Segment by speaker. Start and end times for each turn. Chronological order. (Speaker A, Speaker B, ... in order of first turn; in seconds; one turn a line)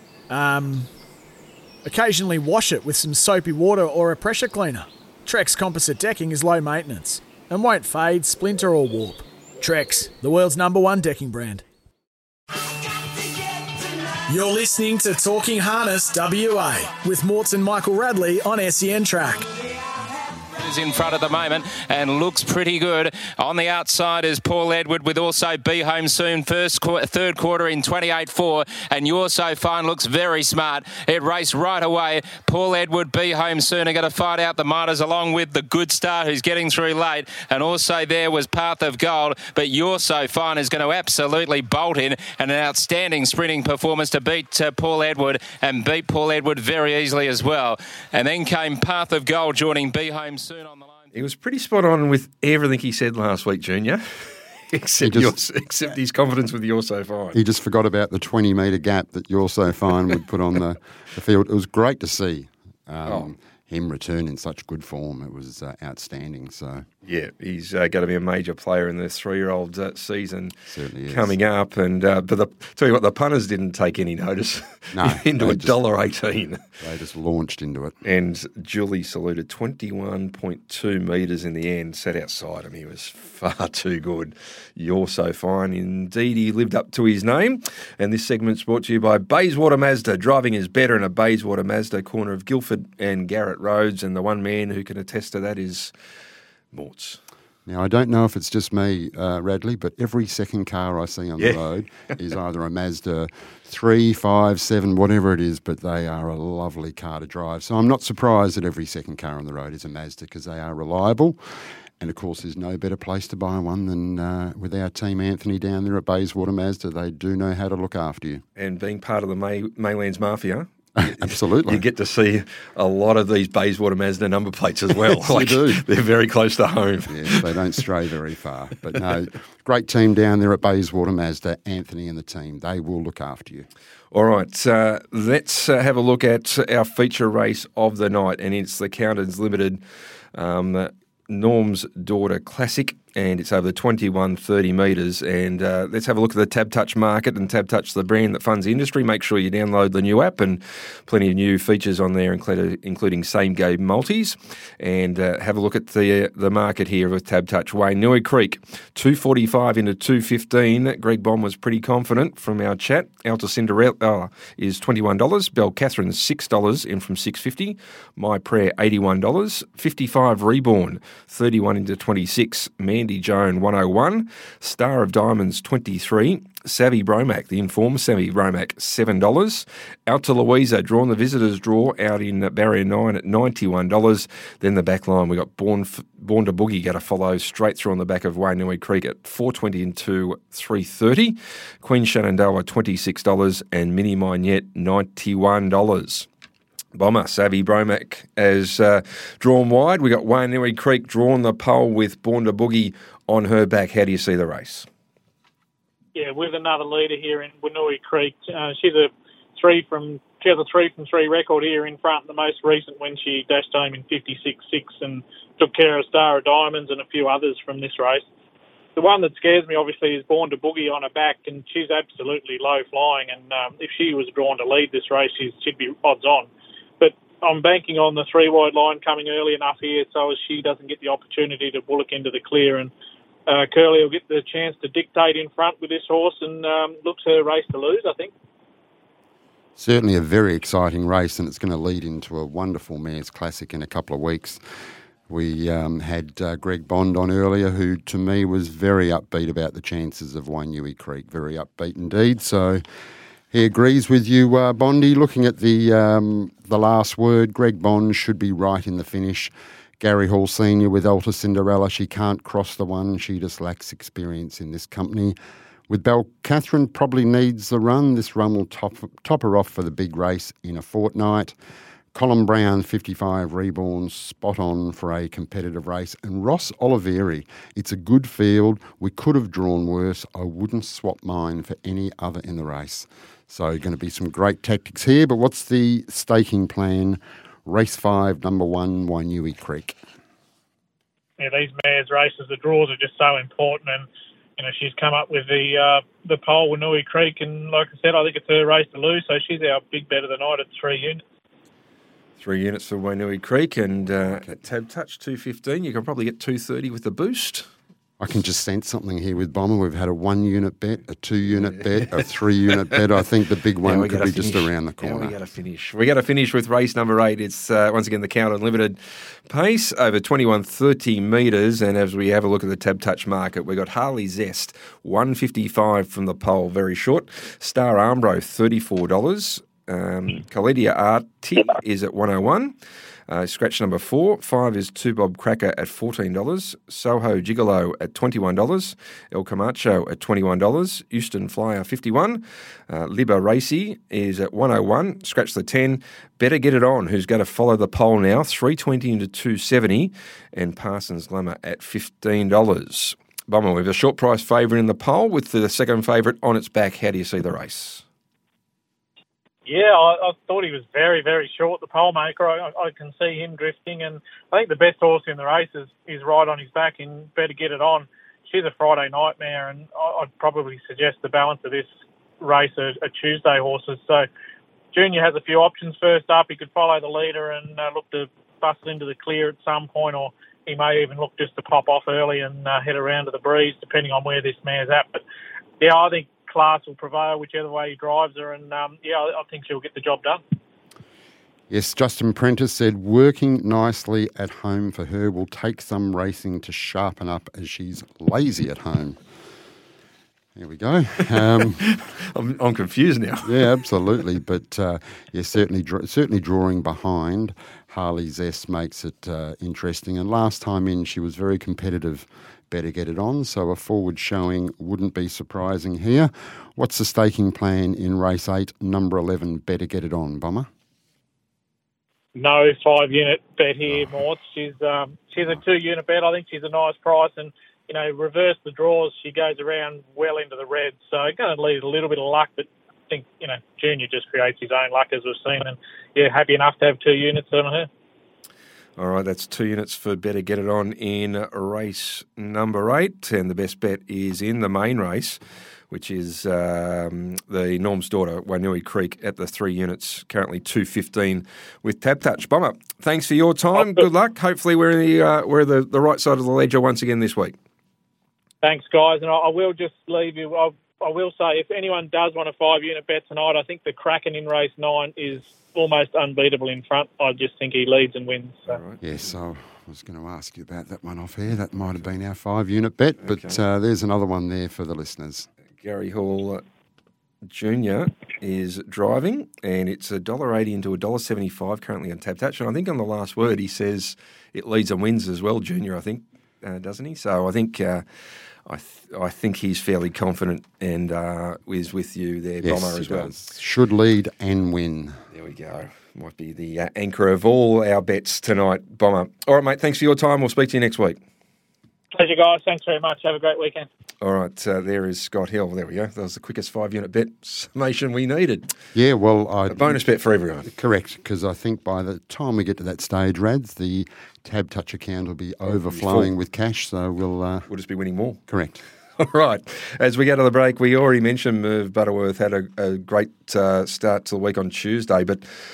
Speaker A: 0.3-0.9
Speaker A: 1.8-11.6
Speaker A: 14.3-19.5
Speaker B: 20.6-51.0
Speaker C: 51.1-57.4
Speaker D: 55.0-55.3
Speaker D: 57.3-66.8
Speaker C: 63.0-63.3
Speaker C: 67.0-70.5
Speaker D: 70.7-71.4
Speaker C: 71.1-76.6
Speaker D: 74.9-75.8
Speaker D: 76.8-78.0
Speaker C: 78.0-95.9
Speaker C: 96.7-97.2
Speaker D: 97.7-111.4
Speaker C: 101.4-101.6
Speaker D: 112.0-118.4
Speaker C: 118.5-127.8
Speaker D: 121.0-121.8
Speaker D: 125.2-125.8
Speaker D: 127.1-133.7
Speaker C: 134.1-139.8
Speaker C: 140.3-196.3
Speaker C: 196.9-204.9
Speaker E: 206.1-218.2
Speaker E: 218.9-226.5
Speaker E: 227.0-232.9
Speaker E: 233.4-238.3
Speaker D: 239.8-244.6
Speaker D: 245.3-252.8
Speaker D: 253.5-265.4
Speaker D: 265.9-271.6
Speaker D: 272.1-290.0
Speaker E: 291.4-294.0
Speaker E: 294.6-301.2
Speaker C: 302.4-307.7
Speaker D: 308.2-315.3
Speaker C: 311.4-311.7
Speaker C: 313.8-319.0
Speaker C: 319.5-332.8
Speaker C: 333.3-358.0
Speaker E: 359.6-371.9
Speaker E: 372.4-374.2
Speaker E: 374.9-385.2
Speaker E: 385.8-390.4
Speaker D: 391.7-399.2
Speaker D: 400.6-401.9
Speaker C: 401.5-403.8
Speaker D: 403.4-420.7
Speaker E: 422.4-437.9
Speaker D: 423.9-424.1
Speaker C: 439.0-457.6
Speaker E: 453.8-454.0
Speaker E: 458.6-468.8
Speaker C: 468.7-469.3
Speaker D: 469.0-475.5
Speaker C: 473.2-473.6
Speaker C: 475.8-476.6
Speaker C: 477.4-488.0
Speaker C: 488.7-493.3
Speaker D: 492.6-495.2
Speaker C: 495.3-501.2
Speaker E: 502.1-503.9
Speaker C: 504.2-508.7
Speaker D: 508.9-510.0
Speaker C: 509.7-510.7
Speaker D: 510.6-517.7
Speaker C: 515.6-516.3
Speaker C: 517.7-518.4
Speaker D: 518.5-518.8
Speaker C: 519.2-525.4